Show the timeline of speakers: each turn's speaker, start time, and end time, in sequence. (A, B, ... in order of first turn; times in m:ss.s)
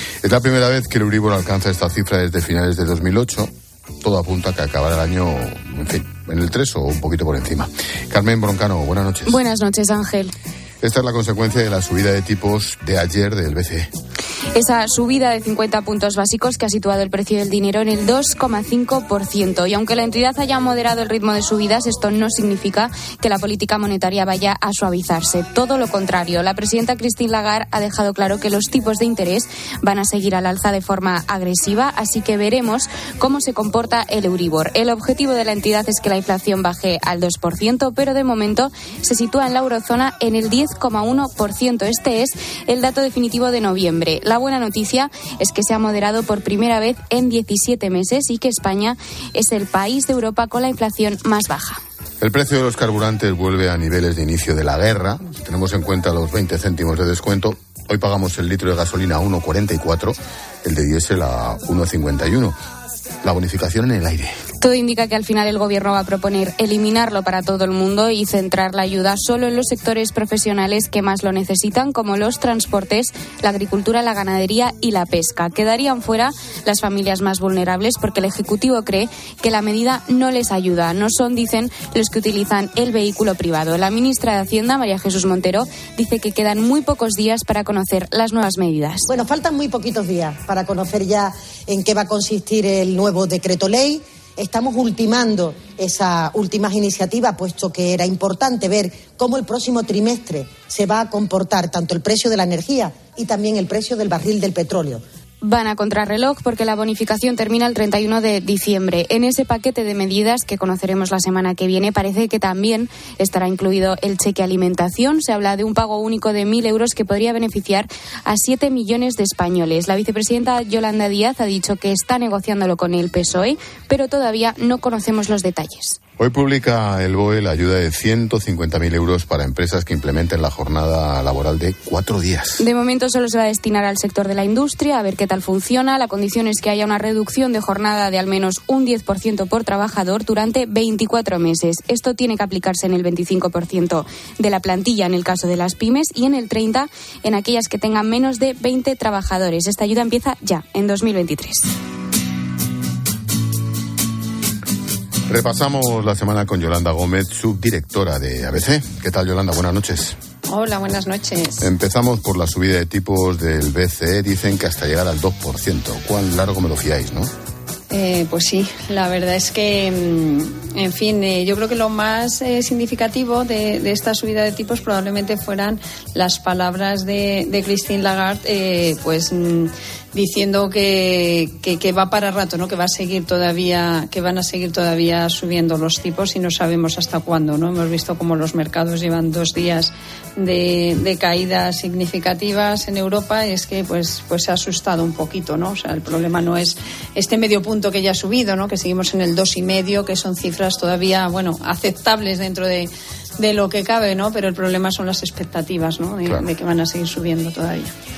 0:00.2-0:09.4 A
0:09.3-0:10.3 B
0:10.8-0:13.9 A
0:14.5-0:51.8 B
0:52.2-1:02.6 A
1:03.2-1:04.3 A
1:04.6-1:29.1 B
1:29.1-1:45.0 C
1:45.4-2:06.0 B
2:06.2-2:12.6 A
2:12.6-2:31.7 B
2:35.3-2:40.2 A
2:40.5-2:41.6 D
2:41.6-2:47.3 A
2:47.9-3:27.9 D